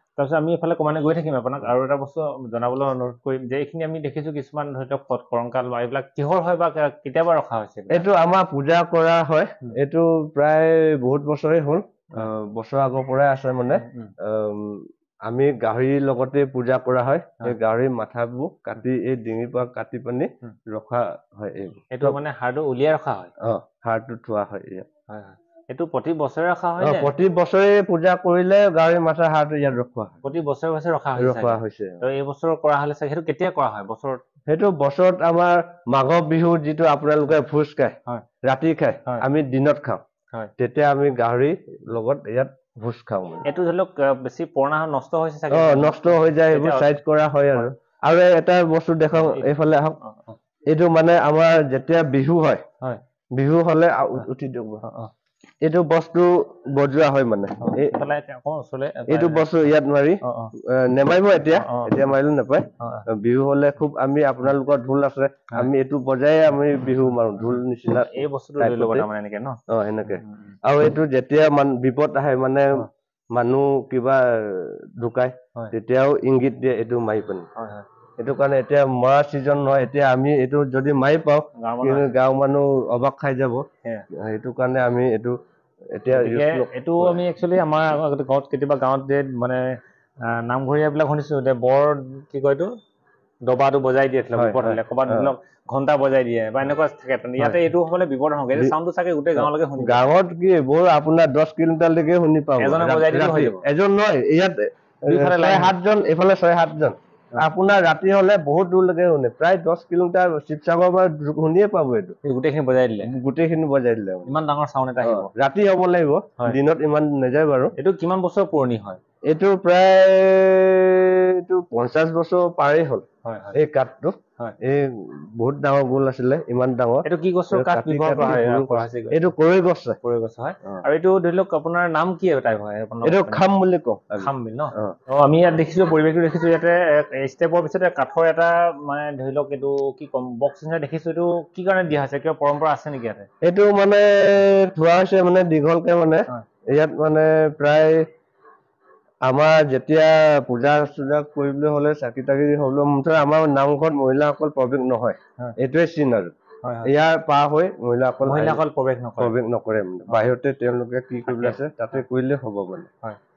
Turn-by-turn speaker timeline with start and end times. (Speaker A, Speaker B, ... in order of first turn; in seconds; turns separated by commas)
Speaker A: 0.2-8.1, Speaker B: 7.9-22.2, Speaker A: 13.7-14.1, Speaker A: 21.9-23.3, Speaker B: 23.4-24.9, Speaker A: 25.1-27.1, Speaker B: 26.8-30.2, Speaker A: 30.2-34.2, Speaker B: 31.2-32.0, Speaker B: 34.5-40.0, Speaker B: 40.6-43.5, Speaker A: 43.4-47.0, Speaker B: 45.5-50.0, Speaker A: 49.1-49.5, Speaker A: 50.0-50.4, Speaker B: 50.7-52.6, Speaker B: 53.3-54.8, Speaker A: 54.8-55.1, Speaker B: 55.6-58.0, Speaker A: 57.6-59.6, Speaker B: 59.1-69.1, Speaker A: 60.2-60.5, Speaker A: 61.5-62.1, Speaker A: 62.8-63.1, Speaker A: 67.9-69.6, Speaker B: 69.7-77.5, Speaker A: 70.1-70.5, Speaker A: 77.5-77.8, Speaker B: 78.2-85.3, Speaker A: 81.5-82.1, Speaker B: 85.9-87.2, Speaker A: 86.1-92.7, Speaker A: 93.4-100.0, Speaker B: 94.3-95.3, Speaker B: 99.3-112.2, Speaker A: 102.6-103.6, Speaker A: 105.1-105.7, Speaker A: 112.2-113.1, Speaker B: 113.0-114.3, Speaker A: 114.2-115.3, Speaker B: 115.0-117.7, Speaker A: 117.8-119.0, Speaker B: 119.3-130.0, Speaker A: 123.2-123.6, Speaker A: 127.0-129.3, Speaker A: 130.0-133.4, Speaker B: 133.0-134.9, Speaker A: 134.2-143.3, Speaker B: 143.4-148.1, Speaker B: 149.2-156.3, Speaker A: 156.6-156.9, Speaker B: 156.8-158.6, Speaker A: 158.2-159.4, Speaker B: 159.2-162.9, Speaker A: 161.3-161.6